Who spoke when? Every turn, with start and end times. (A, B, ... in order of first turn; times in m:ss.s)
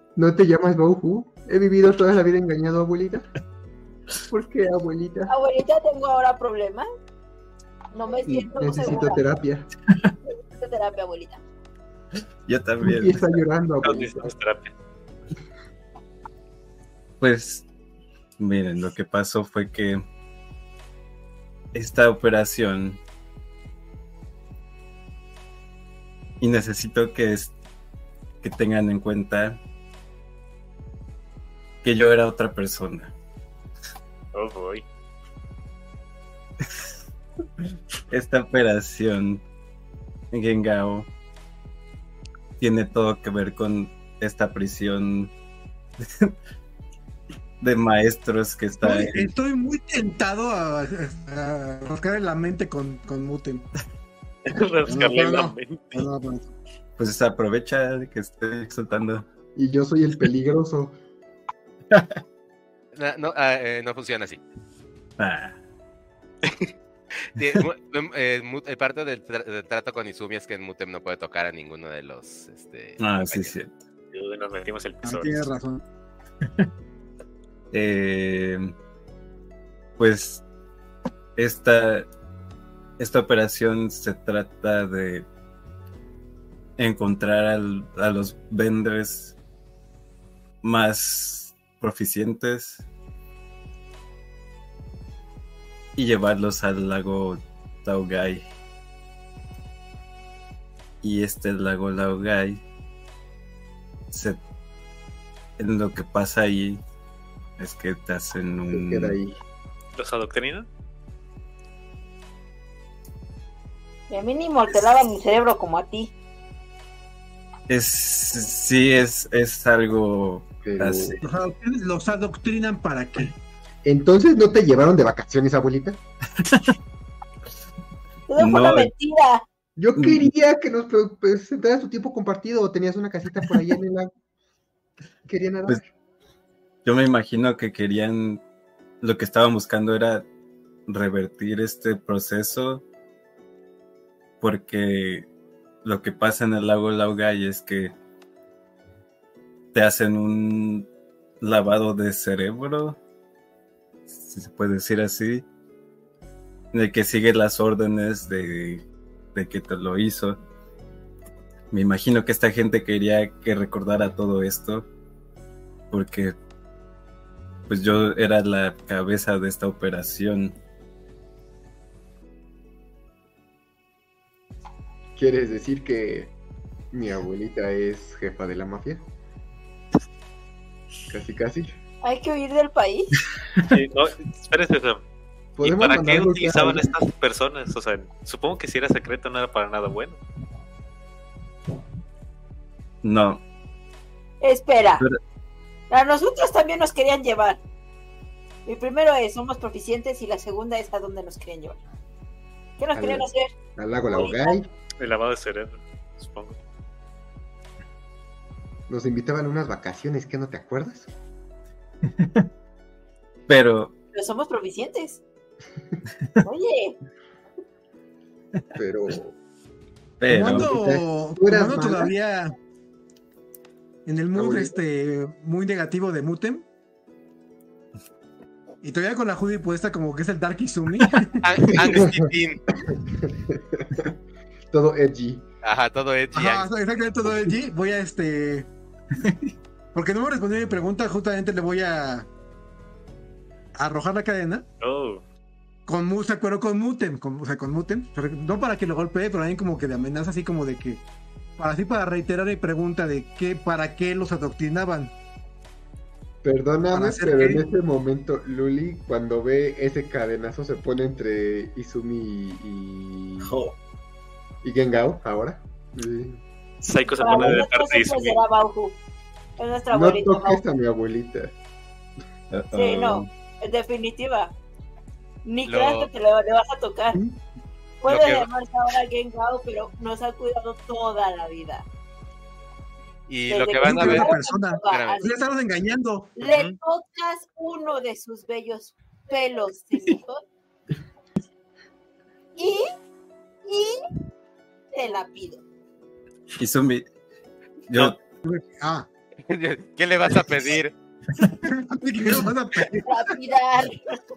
0:00.2-0:03.3 A
0:04.3-0:05.3 A
0:05.3-0:06.9 B
0:07.9-0:09.2 B
0:08.3-0:09.7 A
0:10.5-0:11.4 B
0:12.5-0:13.4 C
0:12.8-0:14.3 A
0:13.8-0:14.7 D
0:17.2-0:17.6 C
0:18.4-0:20.0 C
0:21.7-0:23.0 C
0:26.4-0:27.6 C
0:28.4-0:29.6 C
0:31.8-0:33.1 C
0:34.3-0:34.8 D
0:38.1-0:39.4 C
0:40.3-0:41.1 C
0:42.6-0:45.3 C
0:46.0-0:46.3 C
0:47.6-0:49.3 C
0:48.8-0:53.7 E
0:54.4-0:56.0 D
0:54.9-0:56.5 E
0:57.0-0:59.2 C
0:59.6-1:01.0 A
1:01.9-1:02.2 C
1:02.9-1:04.4 F
1:05.2-1:05.6 C
1:07.3-1:13.5 F
1:13.0-1:13.7 C
1:14.1-1:15.5 D
1:15.0-1:15.8 E
1:17.7-1:18.7 C
1:20.0-1:20.4 C
1:21.4-1:22.1 C
1:23.0-1:25.3 C
1:26.8-1:29.4 C
1:30.6-1:32.9 C
1:36.0-1:38.5 C
1:41.0-1:42.6 C
1:44.1-1:44.4 C
1:45.6-1:46.8 C
1:47.6-1:49.2 C
1:48.7-1:49.4 A
1:50.0-1:50.7 D
1:54.1-1:56.1 B
1:57.7-2:01.2 C
2:00.6-2:01.2 A
2:01.2-2:03.3 E
2:03.8-2:06.0 A
2:06.4-2:06.7 C
2:08.3-2:09.4 B
2:08.4-2:08.9 C
2:09.8-2:14.1 A
2:10.0-2:10.2 C
2:15.3-2:15.9 A
2:16.8-2:18.4 C
2:19.0-2:20.3 C
2:20.9-2:22.8 C
2:24.4-2:25.3 C
2:25.8-2:27.9 C
2:29.7-2:30.9 C
2:31.4-2:33.0 C
2:34.1-2:35.4 C
2:36.7-2:38.8 C
2:39.3-2:40.4 C
2:41.7-2:44.9 C
2:45.9-2:46.4 C
2:47.7-2:50.6 C
2:55.2-2:56.3 A
2:56.9-2:59.0 A
3:01.1-3:01.7 A
3:02.0-3:03.2 B
3:03.6-3:05.0 D
3:05.6-3:06.9 A
3:05.6-3:10.2 D
3:13.0-3:13.4 C
3:14.4-3:15.0 B
3:15.9-3:17.6 B
3:18.7-3:21.8 B
3:22.8-3:23.5 B
3:23.0-3:24.7 A
3:24.1-3:24.6 B
3:25.0-3:26.6 D
3:28.9-3:31.1 A
3:32.1-3:32.4 C
3:33.5-3:33.9 C
3:34.1-3:35.2 B
3:36.4-3:37.0 B
3:38.7-3:39.3 A
3:40.2-3:40.7 C
3:40.3-3:42.6 E
3:40.3-3:42.1 A
3:44.0-3:46.7 E
3:44.3-3:44.7 A
3:48.8-3:51.4 E
3:51.4-3:52.6 F
3:51.9-3:54.2 A
3:54.7-3:55.4 A
3:55.6-3:56.7 F
3:56.3-3:58.7 E
3:59.9-4:02.3 E
4:03.7-4:04.6 E
4:04.8-4:05.2 D
4:05.9-4:11.0 E
4:11.6-4:15.1 E
4:16.4-4:23.6 A
4:16.9-4:17.6 E
4:23.4-4:23.8 C
4:24.6-4:26.4 A
4:26.8-4:28.4 D
4:27.2-4:29.0 B
4:27.3-4:27.6 A
4:29.6-4:30.6 B
4:29.9-4:31.6 A
4:32.5-4:33.3 C
4:32.7-4:34.5 B
4:35.4-4:37.2 B
4:35.7-4:36.1 F
4:37.1-4:37.4 E
4:38.0-4:41.9 B
4:38.0-4:38.5 F
4:43.3-4:44.4 F
4:43.5-4:45.4 B
4:43.8-4:46.4 E
4:44.9-4:45.2 F
4:46.4-4:50.4 B
4:46.4-4:46.7 D
4:52.6-4:52.9 B
4:53.6-4:54.0 B
4:54.9-4:55.6 B
4:56.6-4:57.0 C
4:57.9-4:58.2 C
4:58.4-4:59.1 E
4:59.5-5:00.9 F
5:01.6-5:03.1 E
5:03.0-5:04.0 B